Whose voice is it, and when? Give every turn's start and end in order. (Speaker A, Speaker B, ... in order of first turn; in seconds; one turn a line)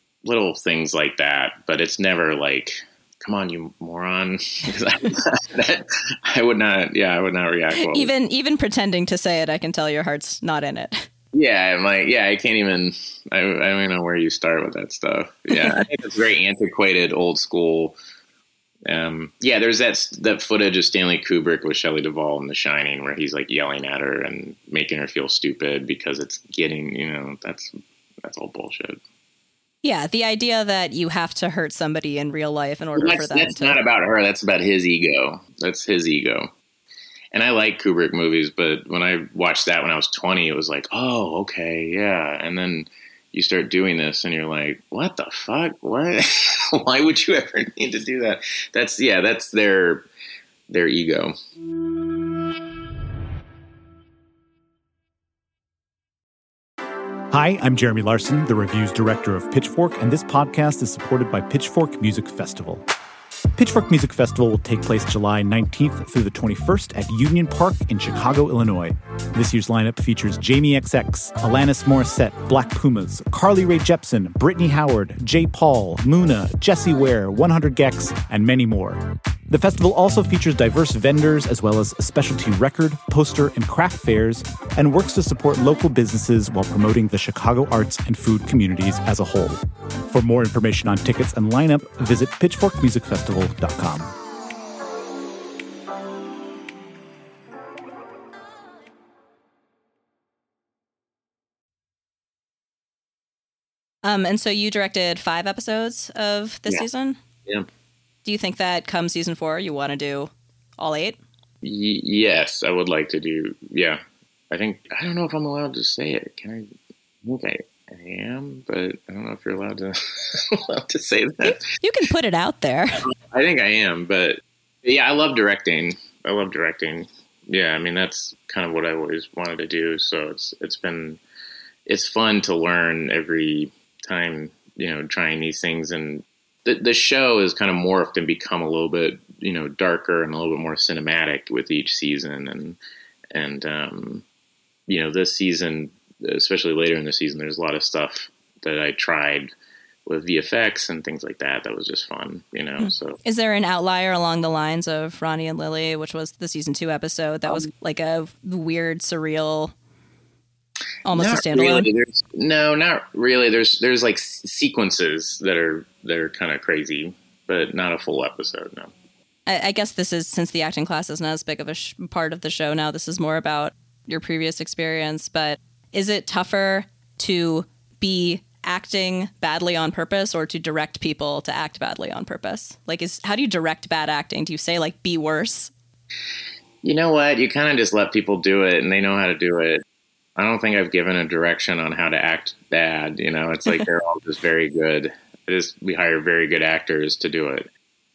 Speaker A: 0.2-8.1
Speaker B: 7.8-11.1
Speaker A: 11.3-18.0
Speaker B: 15.5-15.8
Speaker A: 18.9-27.7
Speaker A: 28.2-29.0
Speaker B: 29.8-33.8
Speaker A: 33.0-36.5
Speaker A: 37.3-50.0
Speaker A: 50.7-51.3
Speaker C: 57.3-62.8
Speaker C: 63.6-94.1
Speaker B: 104.0-107.2
Speaker B: 108.2-111.2
Speaker A: 111.6-114.0
Speaker A: 114.5-116.7
Speaker A: 117.2-121.6
Speaker B: 121.4-123.0
Speaker A: 123.0-131.2
Speaker A: 131.8-142.8
Speaker A: 143.3-144.2
Speaker A: 144.9-149.5
Speaker A: 150.1-153.2
Speaker B: 152.8-159.7
Speaker B: 161.0-161.9
Speaker A: 161.1-168.9
Speaker B: 169.5-185.7
Speaker A: 186.8-189.8
Speaker A: 190.3-197.7